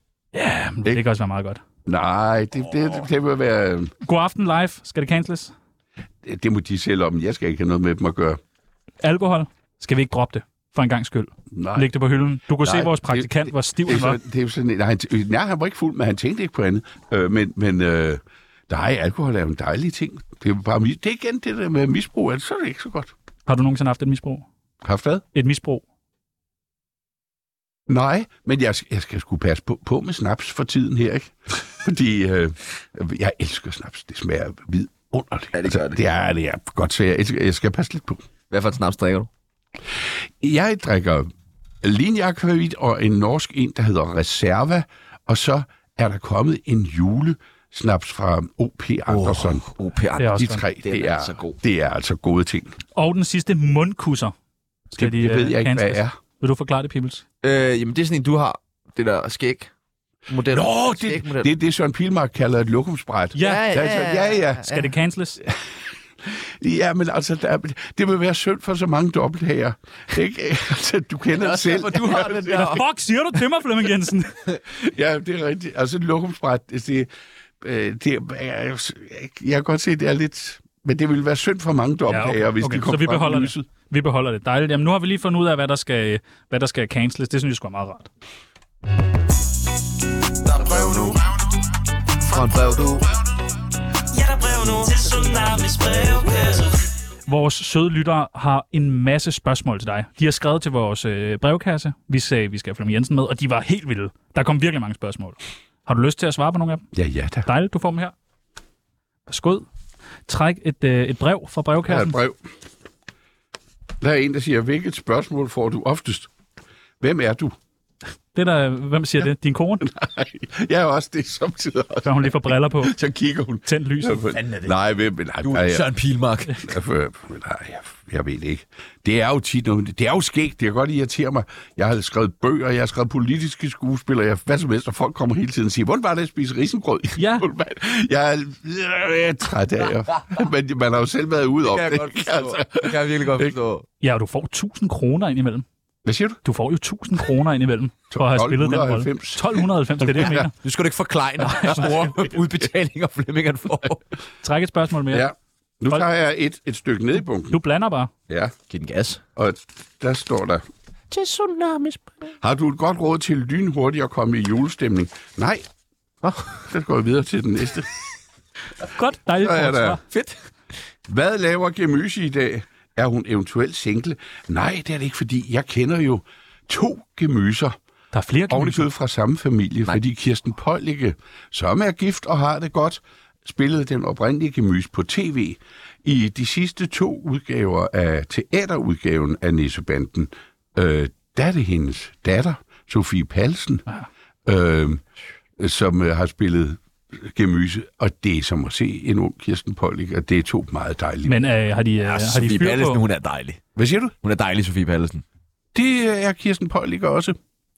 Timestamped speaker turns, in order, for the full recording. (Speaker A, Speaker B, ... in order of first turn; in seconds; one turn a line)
Speaker A: 0.3-1.6
Speaker B: 1.9-3.9
Speaker A: 4.0-5.5
Speaker B: 6.2-8.4
Speaker A: 9.0-14.2
Speaker B: 11.5-11.9
Speaker B: 12.6-23.1
Speaker A: 23.5-24.5
Speaker B: 24.8-25.2
Speaker A: 25.3-25.8
Speaker B: 27.9-38.3
Speaker C: 35.5-36.0
Speaker C: 38.5-39.3
Speaker B: 40.4-41.3
Speaker B: 41.8-49.7
Speaker C: 49.1-51.6
Speaker A: 50.2-50.6
Speaker B: 50.4-52.8
Speaker A: 53.0-54.3
Speaker A: 54.9-57.2
Speaker B: 55.0-56.2
Speaker C: 57.4-59.7
Speaker C: 60.3-61.5
Speaker B: 60.5-64.7
Speaker A: 63.4-63.7
Speaker C: 63.4-64.9
Speaker A: 64.6-65.4
Speaker B: 66.2-72.8
Speaker C: 71.3-72.8
Speaker A: 72.5-74.4
Speaker B: 74.8-77.1
Speaker B: 77.6-83.7
Speaker A: 82.1-88.1
Speaker C: 90.5-91.2
Speaker C: 92.2-93.1
Speaker D: 94.1-96.5
Speaker C: 95.6-96.4
Speaker A: 97.3-106.8
Speaker B: 106.9-107.5
Speaker A: 107.4-108.1
Speaker A: 109.3-109.7
Speaker A: 110.3-112.2
Speaker B: 111.9-112.5
Speaker B: 114.0-116.3
Speaker B: 117.0-117.6
Speaker A: 118.3-119.9
Speaker B: 119.8-125.9
Speaker A: 122.0-123.0
Speaker A: 123.7-124.3
Speaker C: 124.4-124.7
Speaker C: 125.4-126.7
Speaker B: 126.6-143.6
Speaker A: 137.2-137.5
Speaker C: 141.7-143.9
Speaker A: 144.0-145.7
Speaker B: 146.1-146.4
Speaker A: 146.4-150.5
Speaker B: 148.1-150.5
Speaker C: 150.3-154.0
Speaker A: 154.4-155.3
Speaker B: 155.1-157.6
Speaker A: 157.5-158.1
Speaker B: 158.3-158.5
Speaker C: 158.7-159.2
Speaker B: 159.4-160.6
Speaker C: 161.1-162.1
Speaker B: 162.4-165.6
Speaker C: 166.2-166.5
Speaker B: 166.5-167.9
Speaker A: 168.9-170.0
Speaker B: 169.4-170.0
Speaker C: 170.1-170.4
Speaker B: 171.1-177.8
Speaker A: 178.1-178.9
Speaker B: 178.5-193.8
Speaker B: 194.5-195.0
Speaker B: 195.6-201.4
Speaker A: 201.2-203.0
Speaker C: 202.1-203.6
Speaker B: 203.8-204.1
Speaker C: 204.2-205.2
Speaker B: 205.7-207.4